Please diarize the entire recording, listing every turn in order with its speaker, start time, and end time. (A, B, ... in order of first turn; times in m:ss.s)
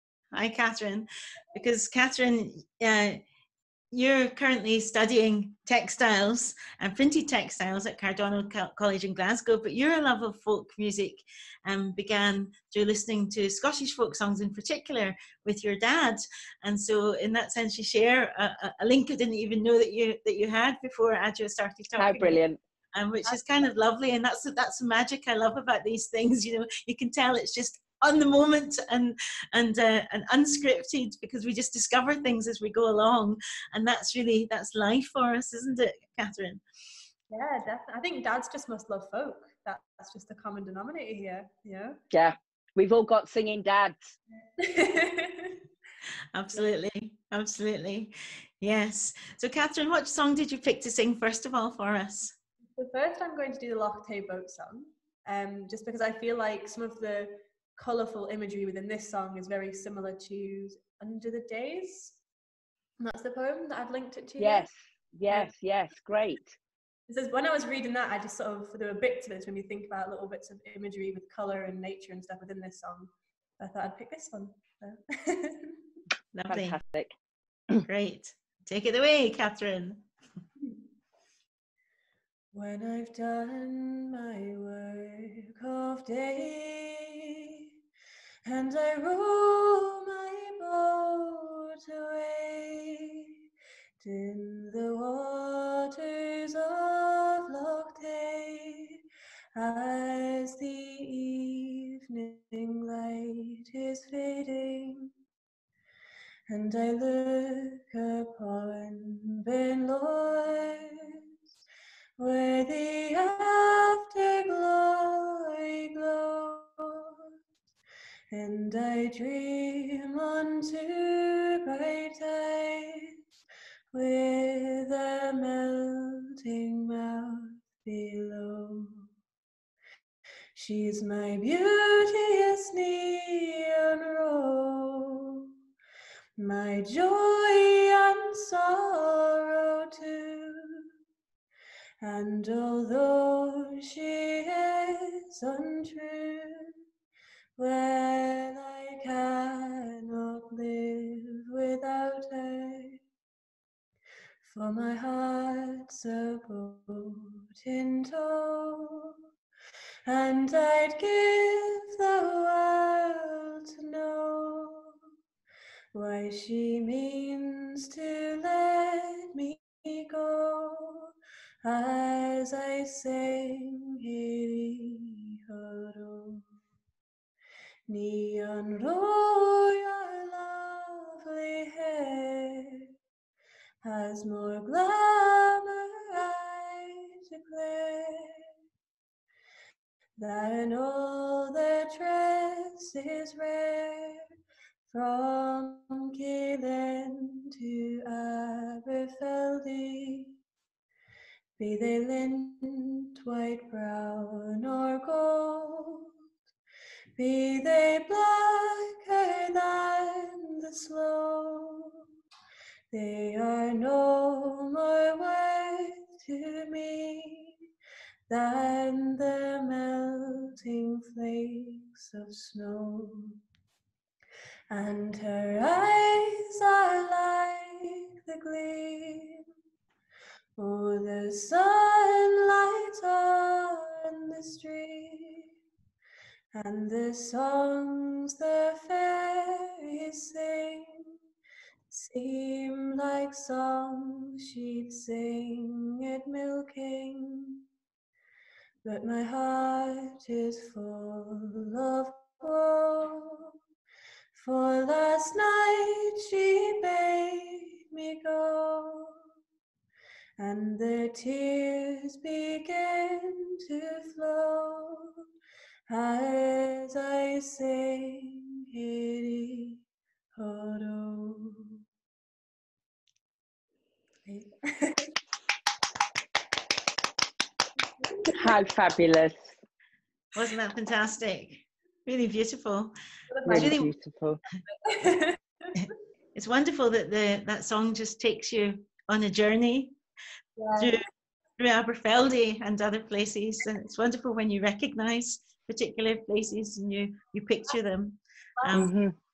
0:00.3-0:03.2 A
0:03.9-0:22.4 A
0:22.0-0:22.6 B
0:22.9-0:36.6 A
0:37.3-0:42.0 C
0:42.1-0:44.2 B
0:44.6-0:45.6 C
0:46.3-0:52.3 A
0:52.8-1:02.2 C
1:03.0-1:04.7 C
1:04.4-1:06.6 B
1:07.1-1:15.8 C
1:16.3-1:16.8 A
1:16.5-1:17.1 B
1:17.9-1:20.1 A
1:22.5-1:27.7 C
1:28.4-1:33.3 C
1:34.0-1:39.0 C
1:39.6-1:45.1 C
1:46.5-1:51.2 C
1:52.2-1:57.3 C
1:58.3-2:03.2 C
2:03.9-2:09.1 C
2:10.6-2:15.5 C
2:16.4-2:20.9 C
2:22.0-2:26.7 C
2:27.6-2:33.0 C
2:34.5-2:39.2 C
2:40.1-2:44.9 C
2:45.9-2:51.1 C
2:51.6-2:56.4 C
2:57.9-3:02.9 C
3:03.8-3:08.5 C
3:10.2-3:14.2 C
3:14.9-3:20.3 C
3:21.6-3:26.1 C
3:27.2-3:32.0 C
3:32.9-3:37.6 C
3:38.3-3:43.4 C
3:44.7-3:49.4 C
3:50.6-3:55.5 C
3:56.5-4:01.1 C
4:01.9-4:07.6 C
4:08.8-4:13.5 C
4:14.4-4:19.2 C
4:20.4-4:25.2 C
4:25.9-4:29.8 C
4:30.4-4:31.8 C
4:34.3-4:35.1 C
4:38.0-4:38.6 C
4:38.4-4:39.5 B
4:40.3-4:43.0 A
4:43.3-4:43.8 C
4:43.5-4:44.4 B
4:43.5-4:43.9 A
4:44.8-4:45.4 C
4:45.8-4:50.0 A
4:50.6-4:51.0 C
4:50.8-4:51.1 A
4:51.6-4:58.9 A
4:58.7-4:59.1 B